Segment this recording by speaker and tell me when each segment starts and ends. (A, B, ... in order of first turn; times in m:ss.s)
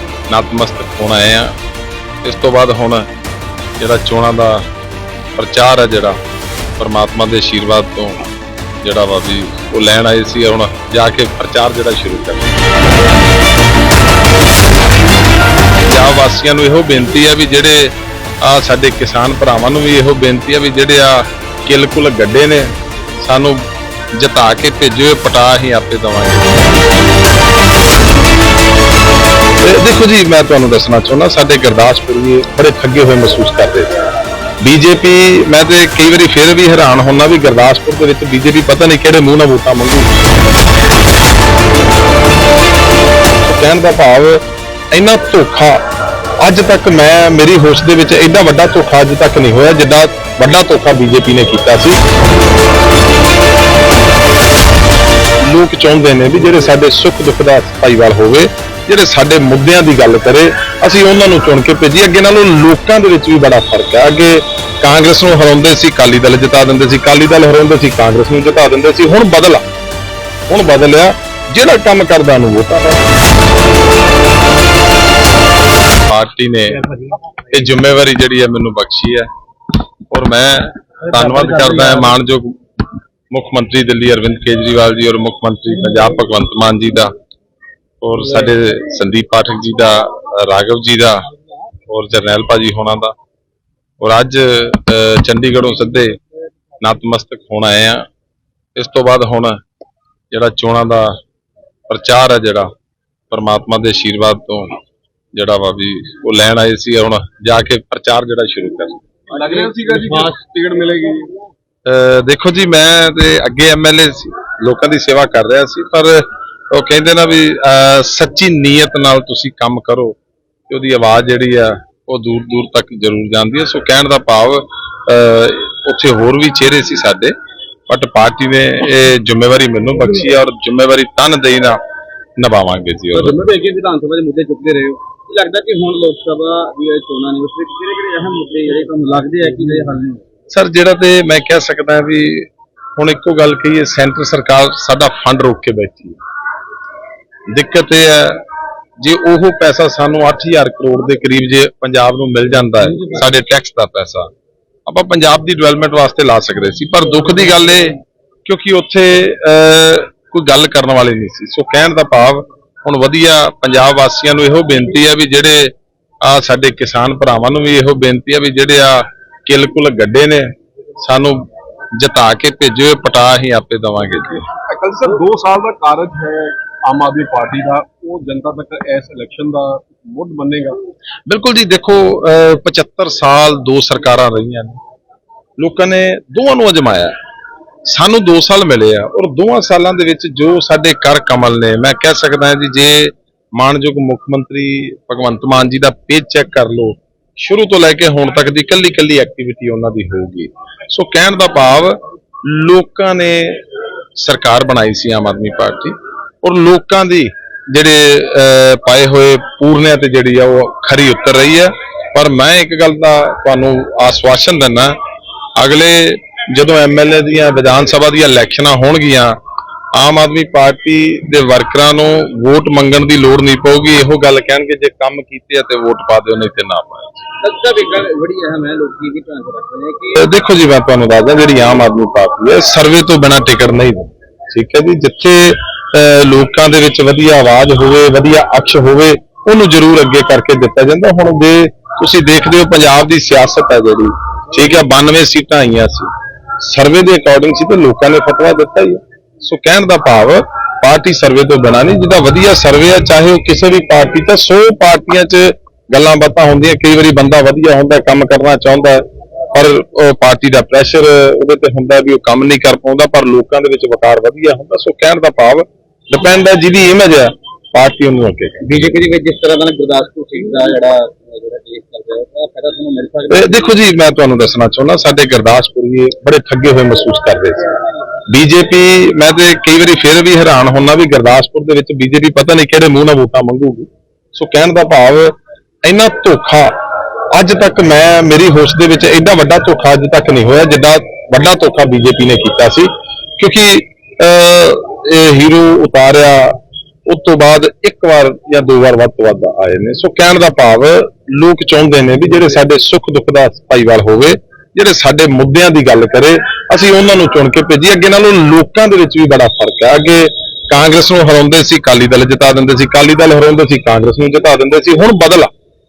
0:00.3-0:01.6 A
0:02.2-0:03.1 A
0:03.8-0:04.7 A
0:05.4-0:06.2 A
0:06.8-0:08.2 A
0:08.8-0:12.5 A
0:15.9-0:23.6 A
0:24.2-0:26.5 A
0:29.6-0:34.0 A
0:34.6-0:40.1 A
0:43.4-0:45.8 A
0:46.4-0:52.0 A
0:55.4-1:09.6 A
1:10.5-1:13.0 A
1:16.0-1:19.3 A
1:20.1-1:22.6 A
1:23.3-1:27.1 A
1:28.0-1:31.3 A
1:31.9-1:33.1 A
1:34.0-1:36.2 A
1:36.8-1:38.1 A
1:38.8-1:39.6 A
1:40.3-1:41.2 A
1:41.9-1:42.7 A
1:43.3-1:44.8 A
1:45.3-1:49.0 A
1:49.3-1:51.3 B
1:49.4-1:50.3 C
1:51.9-2:00.2 A
2:00.7-2:07.3 A
2:07.9-2:11.8 A
2:12.4-2:13.4 A
2:13.2-2:20.2 C
2:20.5-2:26.2 A
2:27.5-2:28.4 A
2:29.0-2:34.3 A
2:34.9-2:54.5 A
2:54.8-3:00.8 B
3:01.3-3:04.8 A
3:05.6-3:07.2 A
3:07.9-3:23.6 A
3:24.2-3:35.0 A
3:35.6-3:39.4 A
3:39.9-3:47.3 A
3:47.4-3:50.2 C
3:50.2-4:29.0 A
4:28.6-4:33.8 C
4:33.3-4:37.7 A
4:38.3-4:46.8 A
4:47.3-5:15.5 A